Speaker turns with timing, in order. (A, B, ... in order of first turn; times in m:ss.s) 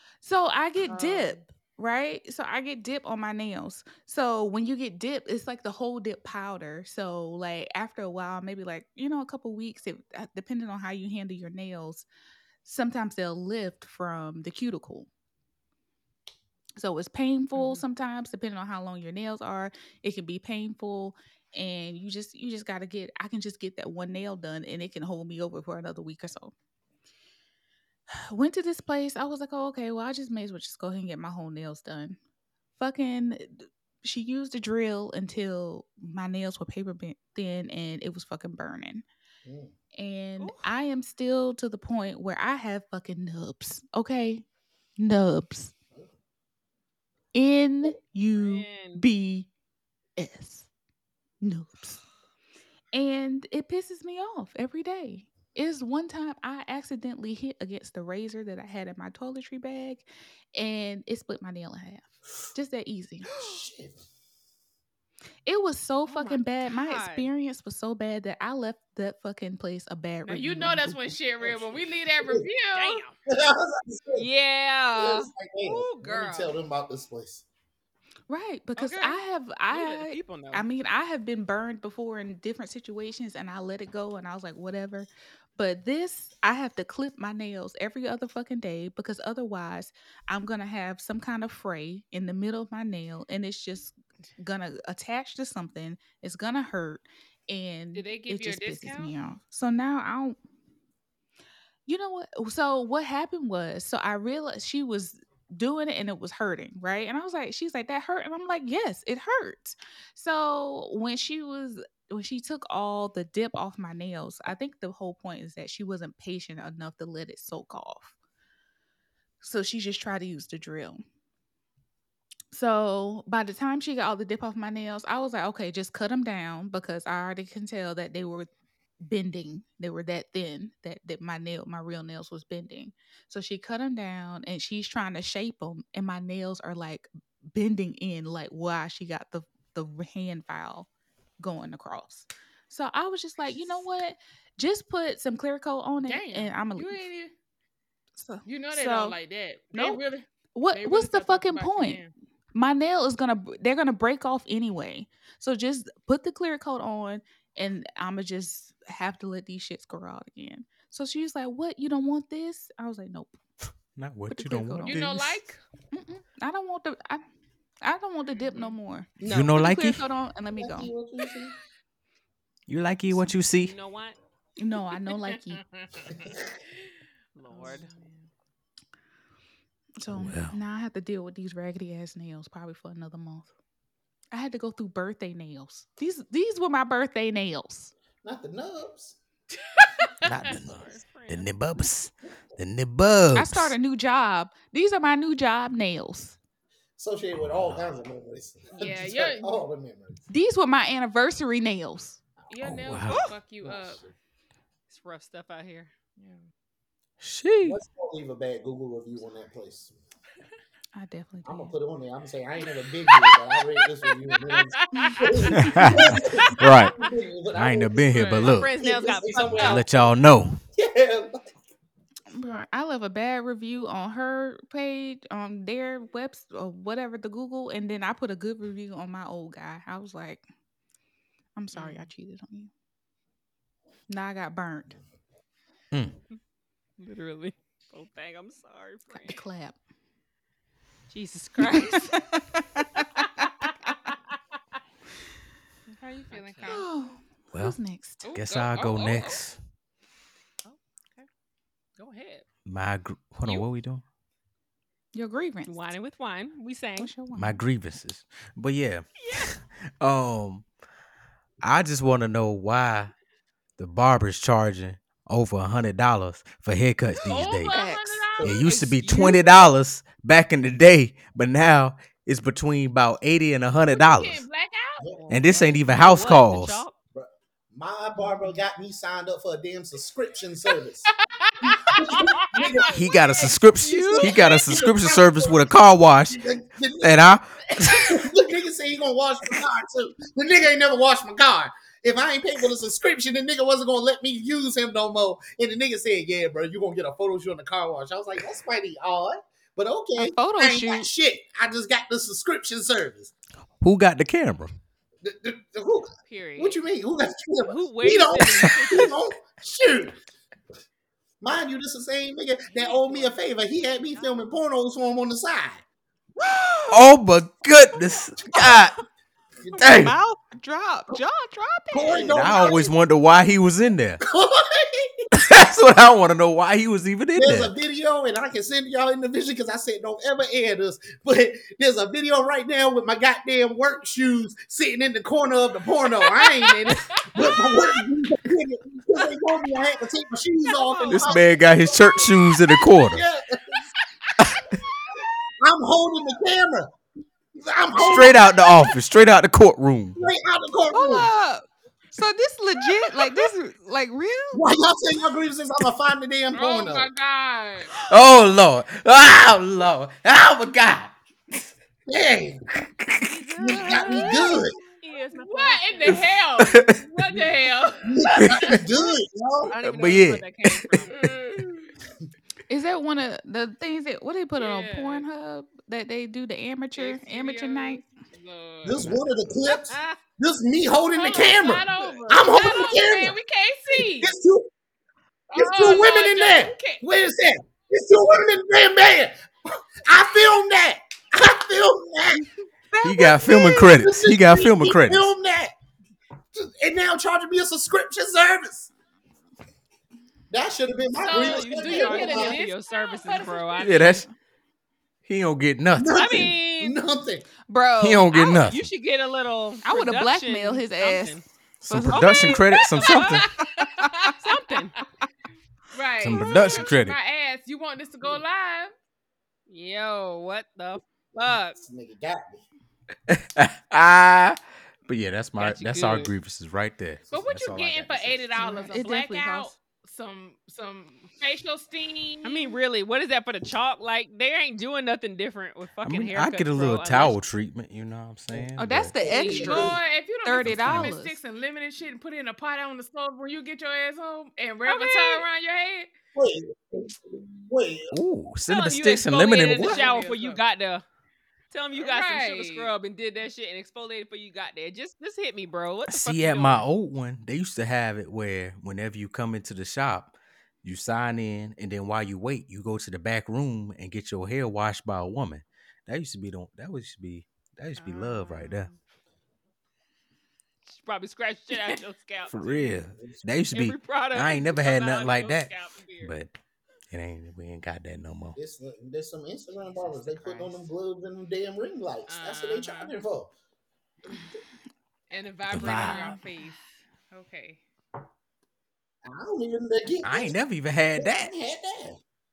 0:00.2-0:12.0 A
0:00.9-0:01.4 B
0:12.6-0:15.1 A
0:16.8-0:26.5 A
0:17.5-0:17.8 C
0:28.1-0:32.2 A
0:32.8-0:39.0 A
0:39.4-0:39.7 D
0:40.0-0:44.4 A
0:40.4-0:40.7 C
0:45.0-0:45.7 A
0:47.3-0:49.5 A
0:48.3-0:49.0 C
0:50.2-0:50.7 A
0:51.4-0:52.0 A
0:52.9-1:03.4 A
1:03.4-1:04.0 D
1:05.4-1:10.8 A
1:06.0-1:07.3 C
1:10.2-1:13.0 B
1:12.7-1:13.2 C
1:13.3-1:14.2 D
1:14.1-1:16.5 C
1:14.9-1:17.4 D
1:18.3-1:40.4 A
1:18.8-1:20.6 C
1:37.9-1:39.1 C
1:41.9-1:58.1 A
1:59.4-2:01.0 A
2:02.5-2:08.5 A
2:09.0-2:20.9 A
2:21.4-2:27.0 A
2:26.0-2:27.3 B
2:28.2-2:29.2 A
2:28.4-2:32.1 B
2:29.7-2:30.0 A
2:30.5-2:32.0 A
2:32.5-2:43.4 A
2:44.0-2:45.4 E
2:44.3-2:45.0 A
2:44.8-2:45.6 B
2:45.9-2:47.2 A
2:47.8-2:50.9 A
2:49.2-2:50.0 E
2:50.6-2:51.5 D
2:52.7-2:53.7 E
2:53.5-2:54.2 C
2:54.6-2:55.6 A
2:55.6-2:56.3 B
2:56.2-2:56.5 D
2:57.3-2:57.9 C
2:57.5-2:58.3 B
3:00.0-3:03.5 A
3:00.1-3:00.6 E
3:04.3-3:07.9 A
3:08.2-3:09.2 D
3:09.7-3:10.3 B
3:10.2-3:13.7 E
3:10.5-3:11.5 C
3:13.3-3:16.4 A
3:17.0-3:20.2 D
3:17.4-3:17.8 E
3:18.7-3:19.6 B
3:20.3-3:22.2 A
3:22.5-3:24.0 B
3:22.6-3:23.2 E
3:23.1-3:23.4 C
3:23.6-3:24.1 D
3:24.9-3:25.9 C
3:26.2-3:26.5 B
3:27.2-3:27.8 E
3:27.6-3:30.0 D
3:30.9-3:31.7 A
3:31.4-3:39.9 D
3:33.0-3:36.8 B
3:35.6-3:36.9 E
3:37.5-3:38.7 E
3:38.1-3:38.6 B
3:38.4-3:39.8 C
3:39.4-3:40.6 E
3:40.7-3:41.5 D
3:42.3-3:50.4 A
3:51.6-3:52.7 A
3:51.7-3:52.1 C
3:54.1-3:55.0 A
3:57.0-3:59.4 C
3:59.2-3:59.8 A
4:01.1-4:02.1 C
4:01.6-4:03.3 A
4:03.1-4:04.2 C
4:05.9-4:06.9 B
4:06.3-4:06.8 C
4:06.7-4:08.2 A
4:08.2-4:09.4 B
4:08.3-4:09.6 E
4:10.6-4:11.3 C
4:12.0-4:12.4 C
4:12.6-4:14.0 E
4:15.1-4:15.9 A
4:15.6-4:17.1 C
4:17.0-4:17.6 A
4:17.3-4:20.6 E
4:19.2-4:19.6 C
4:21.6-4:23.1 E
4:23.8-4:27.7 E
4:27.2-4:29.6 B
4:27.7-4:28.2 A
4:28.4-4:28.8 D
4:28.4-4:34.4 E
4:33.8-4:35.1 B
4:35.1-4:36.9 C
4:35.3-4:36.8 E
4:37.1-4:41.1 D
4:41.1-4:44.4 B
4:41.9-4:43.1 D
4:42.9-4:46.4 E
4:44.2-4:45.7 D
4:46.3-4:47.3 D
4:47.0-4:48.2 E
4:47.9-5:03.3 D
5:00.2-5:01.1 A
5:03.8-5:04.7 E
5:05.2-5:10.2 D
5:06.2-5:06.8 C
5:07.7-5:09.1 C
5:11.4-5:15.8 D
5:12.7-5:14.4 C
5:16.4-5:17.1 A
5:16.9-5:18.9 E
5:19.6-5:19.8 D
5:19.8-5:22.7 A
5:19.8-5:20.1 E
5:21.9-5:22.9 D
5:22.3-5:24.2 E
5:24.2-5:25.3 D
5:25.3-5:27.7 E
5:27.4-5:42.5 D
5:36.3-5:37.8 B
5:40.8-5:41.3 C
5:41.1-5:43.2 E
5:43.1-5:43.9 D
5:44.4-5:44.7 E
5:45.6-5:46.9 D
5:47.5-5:48.5 D
5:48.0-5:50.2 E
5:50.2-5:51.3 D
5:50.9-5:54.6 A
5:54.5-5:57.1 D
5:56.5-5:57.9 B
5:58.0-6:01.6 E
6:02.1-6:02.6 D
6:03.0-6:03.4 E
6:03.2-6:06.2 C
6:03.6-6:04.7 D
6:03.6-6:04.7 A
6:05.3-6:08.2 B
6:06.1-6:07.0 E
6:08.0-6:09.7 D
6:08.3-6:08.8 E
6:09.7-6:11.6 C
6:09.8-6:11.0 E
6:11.0-6:11.6 B
6:12.7-6:18.0 A
6:14.6-6:15.3 B
6:17.0-6:19.1 B
6:18.8-6:24.7 D
6:19.7-6:20.2 C
6:21.1-6:24.3 B
6:25.5-6:26.8 B
6:25.5-6:32.5 D
6:26.0-6:27.0 C
6:32.9-6:34.0 A
6:33.0-6:35.2 E
6:33.4-6:35.7 D
6:36.5-6:38.9 D
6:40.5-6:42.6 D
6:41.2-6:44.2 B
6:41.3-6:44.2 C
6:43.8-6:44.2 E
6:45.3-6:46.5 E
6:45.9-6:47.5 D
6:46.1-6:47.0 C
6:47.7-6:48.6 A
6:48.0-6:48.8 E
6:48.7-6:51.4 C
6:49.8-6:52.6 A
6:51.8-6:53.4 E
6:52.1-6:54.7 B
6:53.0-6:53.5 C
6:53.8-6:54.3 A
6:54.4-6:55.0 C
6:55.9-6:58.9 B
6:56.2-6:57.2 E
6:59.7-7:01.8 C
7:01.4-7:02.6 D
7:03.3-7:08.7 E
7:05.6-7:06.3 C
7:07.3-7:12.8 B
7:08.6-7:09.7 A
7:12.4-7:17.4 C
7:16.0-7:19.1 E
7:18.8-7:21.4 A
7:19.2-7:20.0 D
7:19.3-7:26.1 B
7:19.7-7:20.0 E
7:20.6-7:21.1 E
7:24.9-7:25.4 C
7:26.3-7:28.2 D
7:28.1-7:30.0 E
7:28.7-7:31.0 C
7:29.5-7:30.6 B
7:31.7-7:36.8 C
7:31.9-7:32.9 B
7:36.1-7:48.9 E
7:48.0-7:49.0 B
7:50.9-7:53.0 C
7:52.5-7:56.5 E
7:53.7-7:56.4 C
7:57.1-7:58.6 E
7:58.6-8:03.5 D
7:59.8-8:00.9 C
8:02.3-8:03.1 B
8:05.3-8:07.8 B
8:05.7-8:06.2 E
8:05.9-8:06.2 C
8:06.1-8:06.4 A
8:09.2-8:10.6 D
8:10.2-8:11.5 E
8:11.2-8:12.2 D